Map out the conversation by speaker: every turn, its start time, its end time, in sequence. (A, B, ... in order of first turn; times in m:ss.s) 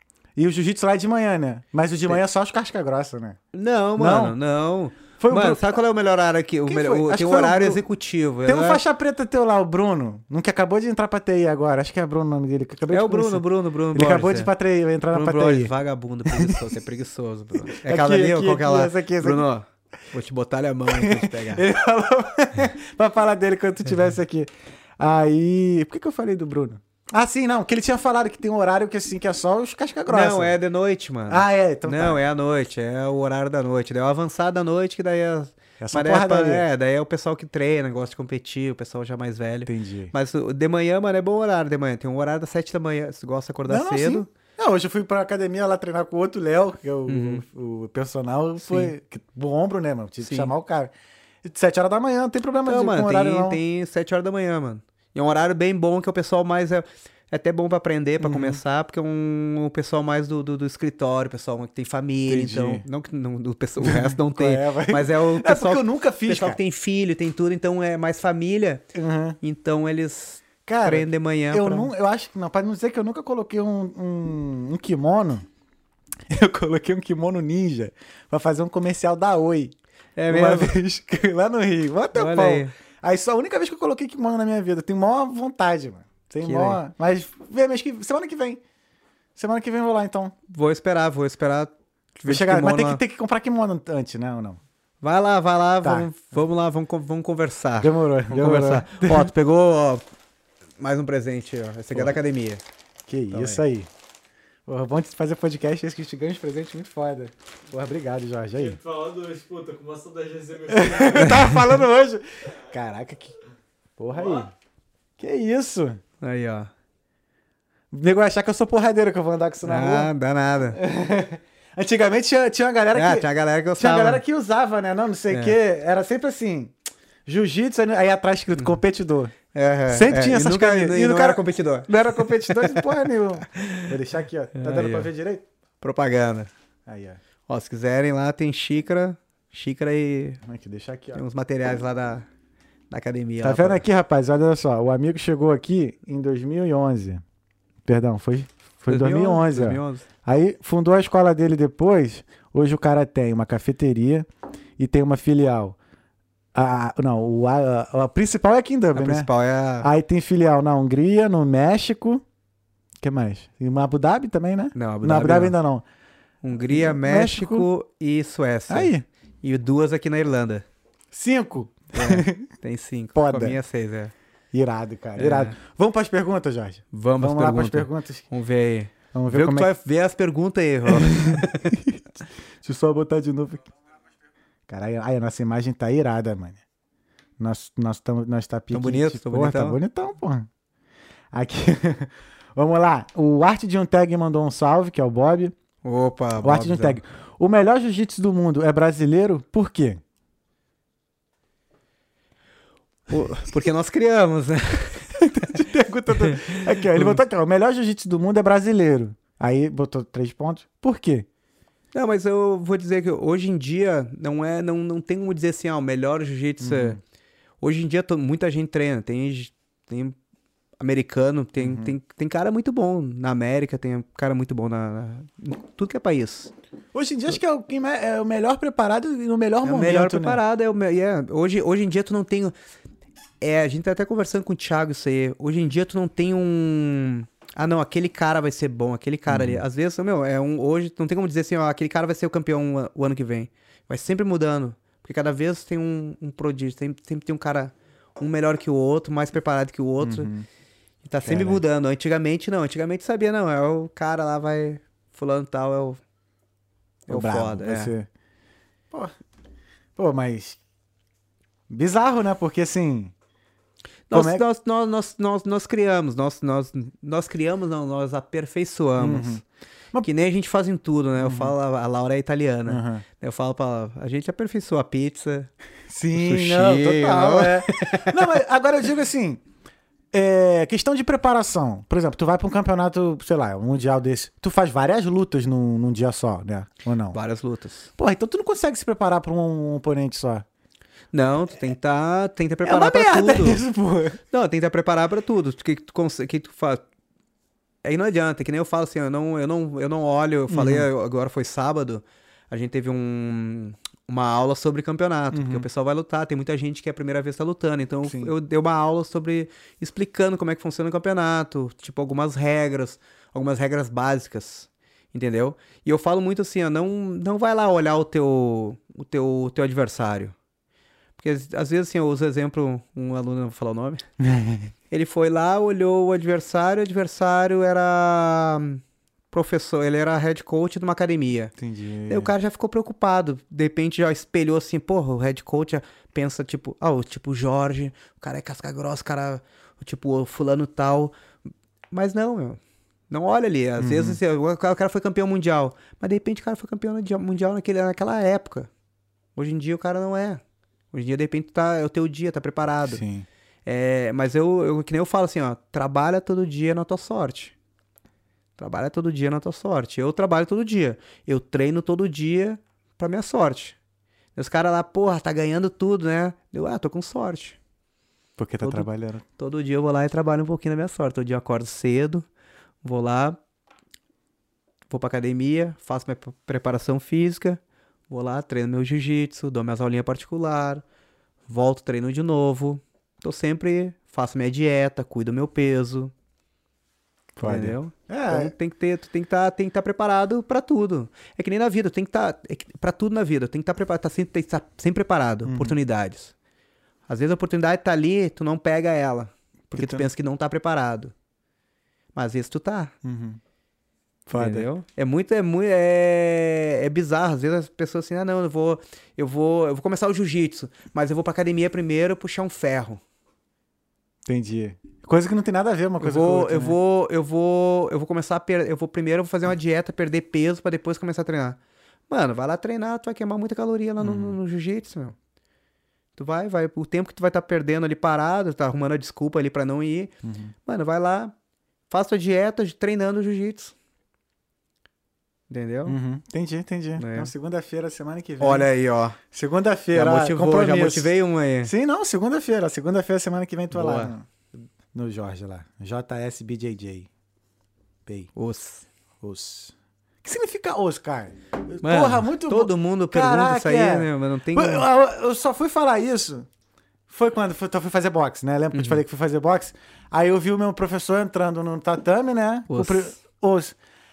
0:00.4-0:03.4 A
0:03.5-0:08.8 B
0:04.0-0:04.4 A
0:05.2-0:05.7 A
0:06.7-0:07.8 A
0:08.4-0:15.7 A
0:12.9-0:14.5 B
0:15.1-0:21.6 B
0:16.3-0:16.6 A
0:17.6-0:19.4 A
0:20.9-0:30.6 A
0:30.1-0:44.3 B
0:31.3-0:32.2 A
0:35.8-0:36.6 A
0:39.6-0:40.1 A
0:43.7-0:50.9 A
0:47.1-0:47.4 B
0:48.6-0:48.9 B
0:50.2-0:50.5 B
0:51.4-0:53.6 A
0:52.6-1:08.8 B
0:58.2-0:58.6 A
1:02.3-1:02.8 A
1:03.8-1:06.6 A
1:08.9-1:09.4 A
1:09.4-1:11.9 B
1:10.6-1:15.4 A
1:16.3-1:19.7 A
1:20.2-1:20.8 B
1:20.3-1:28.6 A
1:22.1-1:22.7 B
1:26.4-1:26.8 B
1:29.4-1:30.3 A
1:30.5-1:33.0 B
1:32.2-1:34.6 A
1:35.0-1:40.0 B
1:35.8-1:36.1 A
1:37.8-1:39.3 A
1:40.8-1:42.6 B
1:43.1-1:43.9 A
1:43.3-1:43.6 B
1:44.6-1:48.8 A
1:48.6-1:51.5 C
1:50.7-1:53.3 A
1:54.0-1:54.5 A
1:55.2-1:56.0 A
1:56.2-1:56.7 B
1:57.9-2:00.1 A
1:59.6-2:00.8 B
2:00.7-2:06.7 A
2:02.9-2:04.2 B
2:05.3-2:05.5 B
2:07.2-2:09.3 A
2:09.5-2:12.9 B
2:09.9-2:15.4 A
2:13.5-2:13.9 B
2:14.5-2:15.1 B
2:15.8-2:16.5 B
2:16.9-2:17.2 A
2:17.5-2:20.4 B
2:20.4-2:21.2 A
2:21.1-2:22.3 B
2:22.9-2:23.8 B
2:23.4-2:27.2 A
2:27.8-2:34.3 A
2:28.8-2:30.0 B
2:34.8-2:35.8 A
2:36.5-2:39.3 A
2:38.9-2:39.9 B
2:39.8-2:42.2 A
2:43.0-2:45.8 A
2:44.7-2:45.6 B
2:46.4-2:48.9 B
2:46.7-2:47.7 A
2:48.7-2:49.0 A
2:49.4-2:50.6 B
2:51.1-2:52.5 A
2:51.9-2:54.1 B
2:53.1-2:53.6 A
2:54.5-2:58.2 A
2:55.2-2:55.6 B
2:56.9-3:01.8 B
2:59.1-2:59.7 A
3:00.9-3:02.0 A
3:02.6-3:03.7 A
3:04.7-3:06.6 A
3:07.4-3:10.5 A
3:08.7-3:09.8 B
3:11.3-3:15.5 A
3:15.8-3:17.0 B
3:16.4-3:20.0 A
3:23.1-3:25.6 B
3:25.2-3:31.2 A
3:26.2-3:27.2 B
3:31.9-3:37.0 B
3:36.6-3:37.0 A
3:37.6-3:40.2 B
3:40.8-3:46.5 B
3:41.6-3:41.9 A
3:46.9-3:50.4 A
3:49.6-3:52.5 B
3:53.4-4:10.3 B
3:59.3-3:59.6 A
4:10.0-4:10.4 A
4:11.0-4:16.0 B
4:11.2-4:11.6 A
4:17.1-4:17.9 B
4:17.1-4:18.1 A
4:20.0-4:20.6 A
4:21.7-4:23.1 A
4:24.1-4:29.4 B
4:24.1-4:24.4 A
4:29.0-4:29.4 A
4:30.0-4:35.5 B
4:31.2-4:31.5 A
4:32.7-4:33.0 A
4:35.9-4:39.4 A
4:36.1-4:38.2 B
4:40.1-4:47.2 A
4:47.1-4:47.9 B
4:48.0-4:50.4 A
4:51.1-4:53.6 B
4:52.6-4:54.2 A
4:54.3-4:56.8 B
4:57.8-5:20.3 B
5:00.5-5:00.9 A
5:05.3-5:05.6 A
5:08.0-5:08.3 A
5:21.2-5:24.0 B
5:24.2-5:24.7 A
5:24.9-5:31.5 B
5:31.6-5:32.3 A
5:32.1-5:41.1 B
5:41.9-5:48.7 B
5:43.8-5:44.2 A
5:49.3-5:53.0 B
5:52.9-5:53.2 A
5:53.6-5:57.5 B
5:58.6-6:03.8 B
6:04.3-6:07.6 B
6:08.4-6:09.2 A
6:08.6-6:12.3 B
6:12.8-6:13.4 B
6:14.9-6:20.8 B
6:21.5-6:26.1 B
6:27.4-6:28.5 A
6:27.4-6:36.3 B
6:35.4-6:35.8 A
6:37.1-6:41.1 B
6:39.8-6:40.1 A
6:42.1-6:42.9 B
6:43.0-6:43.4 A
6:44.3-6:44.7 A
6:44.3-6:53.0 B
6:54.2-6:56.8 A
6:56.0-7:01.6 B
7:02.1-7:05.2 B
7:04.0-7:04.4 A
7:06.2-7:10.1 B
7:10.2-7:10.5 A
7:10.6-7:11.3 B
7:11.9-7:13.7 B
7:15.5-7:16.0 B
7:15.8-7:18.7 A
7:17.0-7:17.3 B
7:18.4-7:19.2 B
7:19.3-7:21.1 A
7:19.9-7:21.7 B
7:21.6-7:24.2 A
7:23.7-7:24.1 B
7:24.9-7:27.1 A
7:28.0-7:28.3 A
7:28.3-7:28.8 B
7:29.2-7:36.5 A
7:31.8-7:34.8 B
7:37.1-7:43.7 A
7:38.7-7:39.0 B
7:42.7-7:43.1 B